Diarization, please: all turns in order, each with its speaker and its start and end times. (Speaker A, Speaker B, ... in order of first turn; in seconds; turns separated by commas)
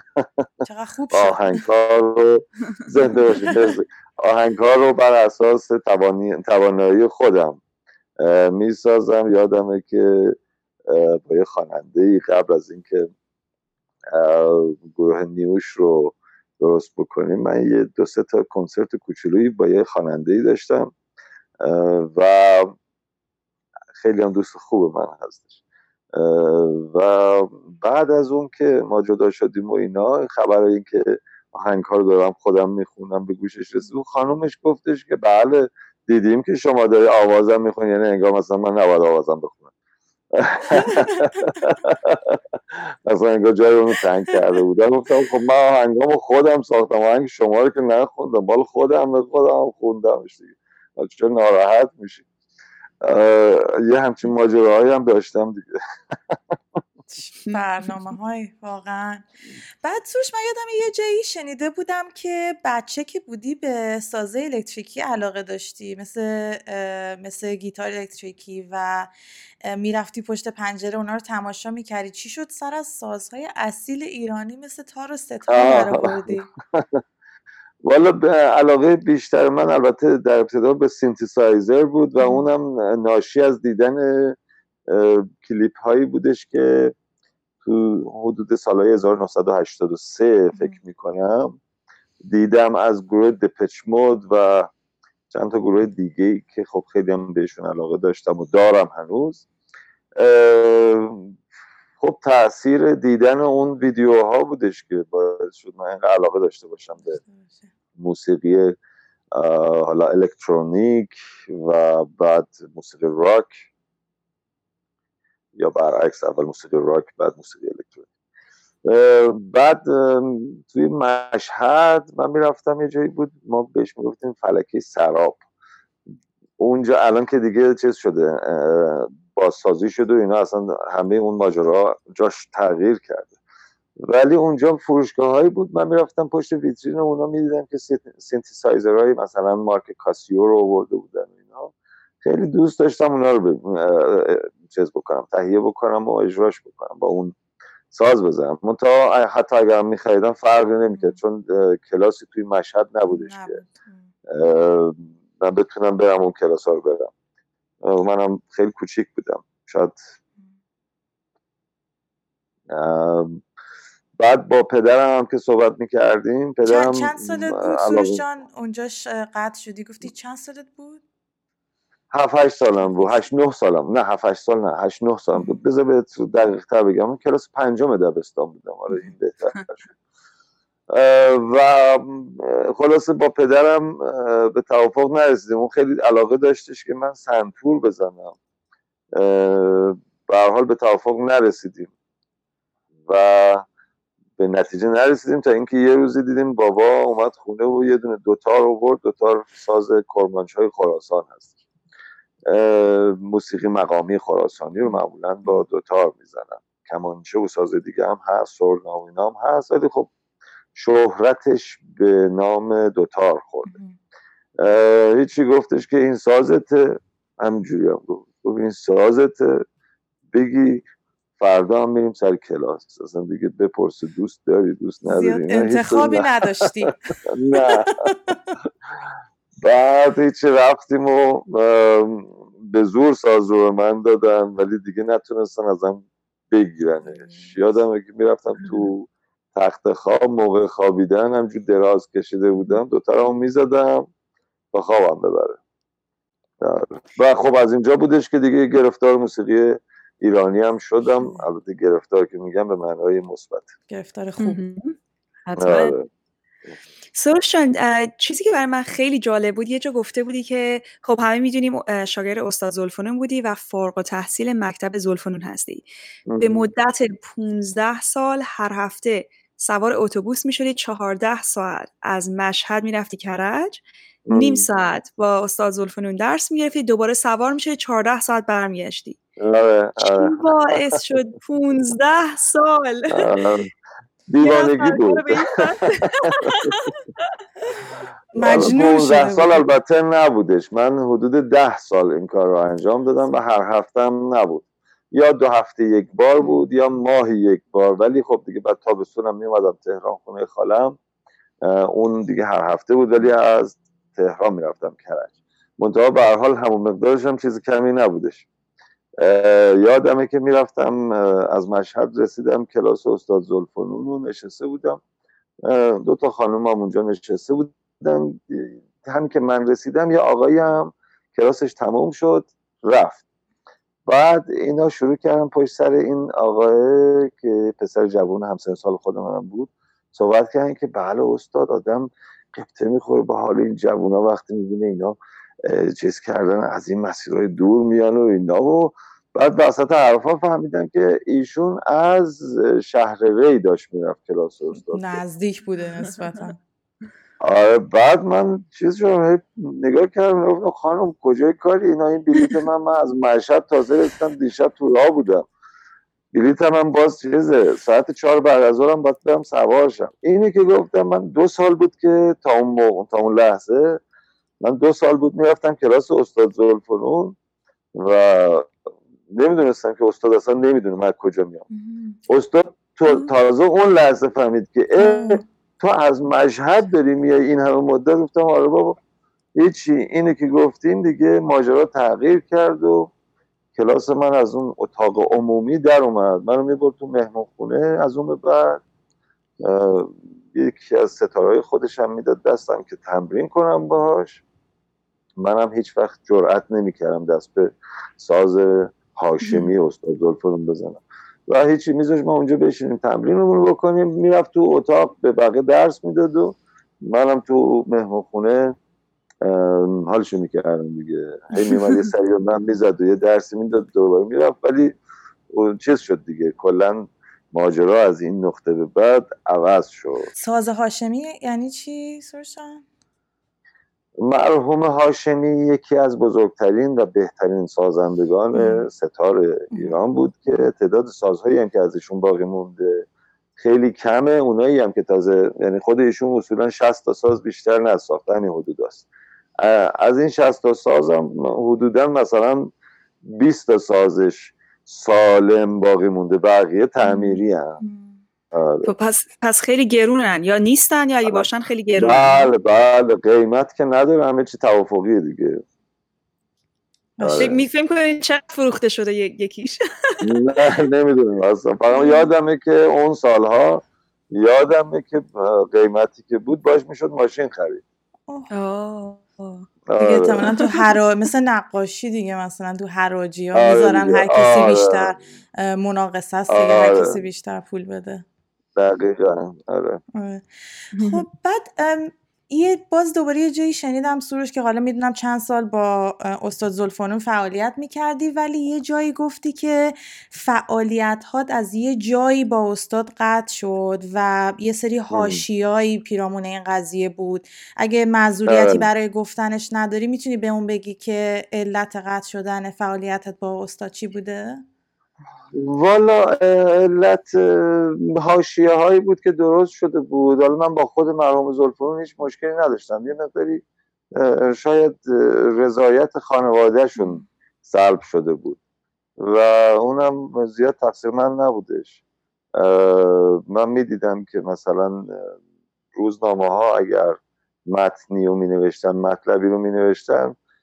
Speaker A: 0.2-0.5, Speaker B: 0.7-1.6, Speaker A: 1.1-7.6, Speaker A: 8.2-13.1, Speaker A: 14.1-20.9, Speaker A: 21.6-22.7, Speaker A: 24.0-25.6, Speaker A: 26.1-39.7, Speaker A: 40.3-52.2, Speaker A: 53.0-55.7, Speaker B: 57.1-59.2, Speaker B: 59.8-69.1, Speaker B: 69.6-76.5, Speaker A: 75.5-77.0, Speaker A: 77.8-84.4, Speaker B: 82.2-82.5, Speaker A: 84.9-87.0, Speaker A: 87.6-91.6, Speaker A: 92.3-94.7, Speaker A: 95.3-99.5, Speaker A: 100.2-101.3, Speaker A: 102.0-107.2, Speaker B: 107.1-107.7, Speaker A: 108.0-108.8, Speaker A: 109.3-113.6, Speaker A: 115.6-118.1, Speaker A: 118.8-125.4, Speaker A: 126.6-133.3, Speaker A: 134.0-147.3, Speaker A: 147.9-153.6, Speaker B: 153.1-154.1, Speaker A: 154.3-157.1, Speaker A: 157.8-160.0, Speaker A: 162.7-163.4, Speaker A: 164.2-168.2, Speaker B: 166.6-171.0, Speaker A: 172.1-179.8, Speaker B: 172.8-173.2, Speaker A: 180.9-188.4, Speaker A: 189.2-191.9, Speaker A: 193.1-193.7, Speaker A: 194.4-201.6, Speaker A: 202.5-210.1, Speaker A: 210.8-213.7, Speaker B: 213.7-213.9, Speaker A: 214.6-219.7, Speaker A: 220.3-220.8, Speaker A: 221.4-228.1, Speaker B: 225.1-227.0, Speaker B: 227.6-228.4, Speaker A: 229.6-244.1, Speaker B: 237.0-237.6, Speaker A: 244.7-245.6, Speaker A: 246.6-253.7, Speaker B: 253.9-254.6, Speaker C: 254.4-254.9, Speaker C: 255.5-255.9, Speaker A: 255.6-256.1, Speaker C: 257.1-279.2, Speaker A: 266.3-266.7, Speaker A: 274.3-274.7, Speaker A: 279.4-280.4, Speaker C: 280.0-283.3, Speaker A: 283.1-283.7, Speaker A: 284.3-285.4, Speaker C: 284.4-286.9, Speaker A: 286.0-286.7, Speaker B: 288.4-289.6, Speaker A: 288.4-301.0, Speaker A: 301.6-308.5, Speaker A: 309.2-315.0, Speaker A: 315.7-323.2, Speaker A: 324.1-345.2, Speaker B: 344.9-346.6, Speaker A: 347.4-355.5, Speaker A: 356.3-364.0, Speaker A: 364.6-367.4, Speaker A: 367.9-368.8, Speaker A: 369.3-371.7, Speaker B: 371.7-372.2, Speaker A: 372.3-379.0, Speaker B: 375.0-375.4, Speaker A: 379.6-383.1, Speaker A: 383.8-388.8, Speaker A: 389.6-394.4, Speaker A: 395.4-408.8, Speaker A: 409.4-415.0, Speaker A: 415.5-420.3, Speaker B: 420.4-422.8, Speaker A: 424.2-439.1, Speaker B: 429.7-430.0, Speaker A: 439.6-442.7, Speaker A: 443.2-447.8, Speaker B: 447.8-448.2, Speaker A: 448.5-448.9, Speaker C: 448.8-452.5, Speaker A: 451.2-455.6, Speaker B: 457.2-457.6, Speaker A: 457.2-457.6, Speaker C: 457.4-460.3, Speaker A: 460.2-467.8, Speaker C: 461.9-462.2, Speaker C: 468.5-469.7, Speaker A: 469.9-470.5, Speaker B: 470.0-478.2, Speaker A: 473.5-475.2, Speaker A: 476.5-477.2, Speaker A: 478.8-480.0, Speaker B: 480.1-504.6, Speaker C: 481.0-481.2, Speaker A: 495.1-495.4, Speaker A: 498.5-498.9, Speaker A: 505.5-513.6, Speaker A: 514.2-518.6, Speaker B: 517.0-517.2, Speaker A: 519.2-522.0, Speaker A: 522.6-525.4, Speaker A: 525.9-530.4